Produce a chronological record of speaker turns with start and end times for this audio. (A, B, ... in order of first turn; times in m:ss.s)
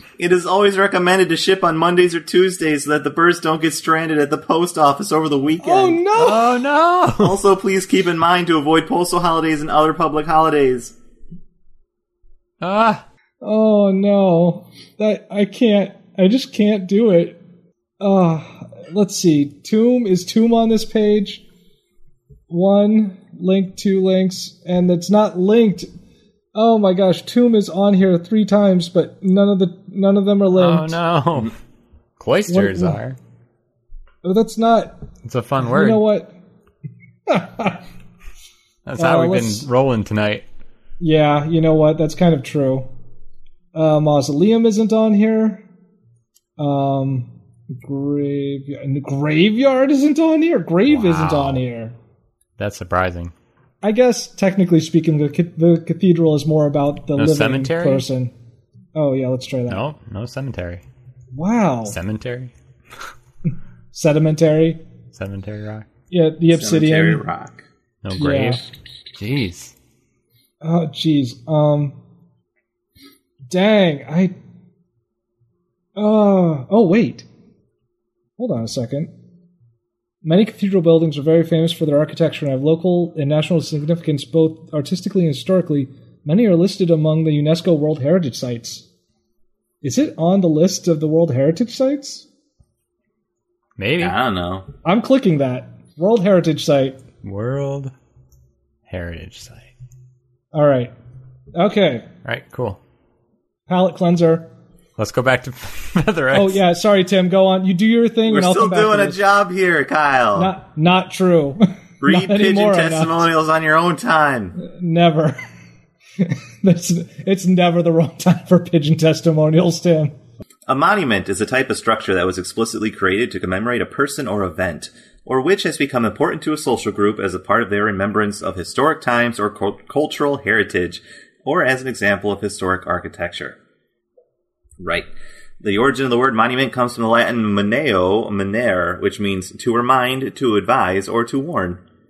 0:00.2-0:06.1 A
0:05.6-0:06.5 B
0:06.2-0:07.4 C
0:07.2-0:11.0 A
0:12.6-0:13.0 C
0:13.4-0:17.4 B
0:18.0-0:21.4 B
0:22.5-0:25.9 B
0:26.5-0:31.0 B
0:30.6-0:31.6 C
0:32.2-0:33.2 C
0:32.5-0:33.0 B
0:34.2-0:35.0 B
0:35.2-0:36.0 C
0:35.6-0:36.3 B
0:37.3-0:37.8 B
0:38.8-0:40.4 C
0:39.0-0:39.7 B
0:41.0-0:42.9 B
0:43.7-0:45.6 B
0:46.6-0:52.0 B
0:50.9-0:51.6 C
0:52.6-0:53.3 C
0:53.8-0:58.3 B
0:57.2-0:58.1 C
0:59.0-0:59.8 B
0:59.7-1:00.8 C
1:01.3-1:02.0 B
1:01.9-1:02.5 C
1:03.9-1:04.8 B
1:05.1-1:05.9 C
1:06.1-1:07.2 B
1:06.5-1:07.6 A
1:08.0-1:08.6 C
1:08.1-1:08.6 B
1:09.2-1:09.7 C
1:10.6-1:12.0 B
1:13.5-1:14.4 B
1:16.0-1:17.3 B
1:18.4-1:19.1 B
1:20.2-1:28.9 B
1:29.8-1:32.3 B
1:33.8-1:34.2 C
1:34.0-1:34.7 A
1:34.8-1:37.0 B
1:37.2-1:37.9 C
1:38.9-1:39.7 C
1:40.5-1:40.9 B
1:41.6-1:42.1 B
1:42.2-1:42.8 C
1:43.7-1:44.5 B
1:45.0-1:46.6 C
1:46.3-1:49.2 B
1:48.3-1:50.5 A
1:50.4-1:53.2 B
1:52.0-1:54.6 A
1:54.6-1:55.4 B
1:56.2-2:00.2 B
2:00.7-2:13.6 A
2:14.8-2:15.1 A
2:15.6-2:21.8 A